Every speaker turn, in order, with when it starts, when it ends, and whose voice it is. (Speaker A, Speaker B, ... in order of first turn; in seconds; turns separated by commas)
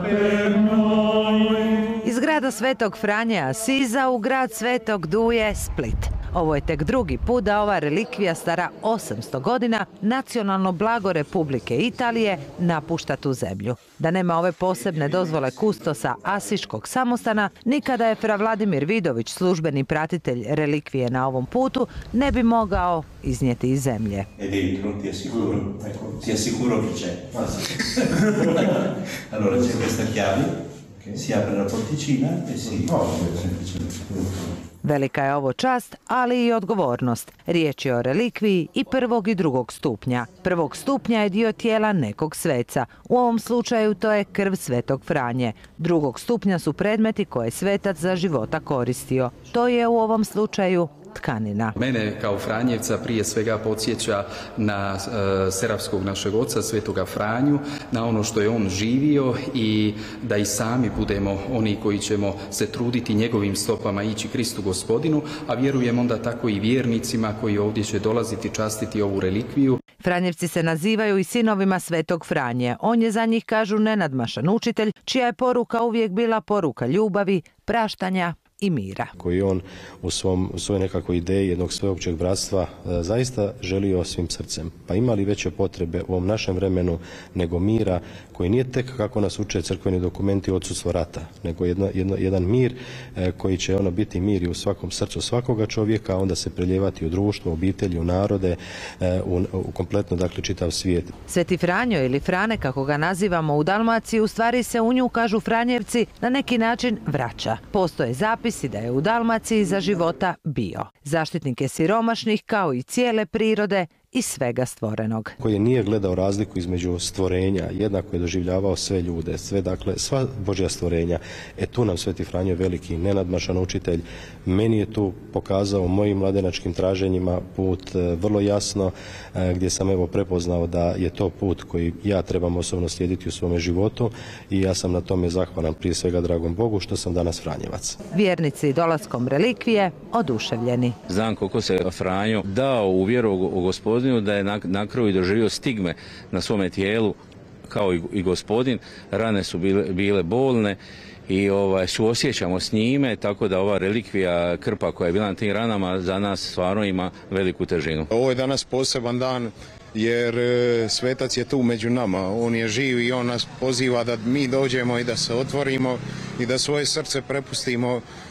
Speaker A: 2.0-24.3, Speaker B: 24.4-27.3, Speaker B: 29.3-30.5, Speaker B: 31.2-33.0, Speaker A: 34.8-51.8, Speaker C: 51.8-69.8, Speaker A: 70.0-79.1, Speaker D: 79.2-101.1, Speaker A: 101.3-115.3, Speaker D: 115.4-138.0, Speaker A: 138.1-141.0, Speaker E: 141.1-147.2, Speaker E: 147.7-150.8, Speaker E: 151.3-158.1, Speaker F: 158.1-168.0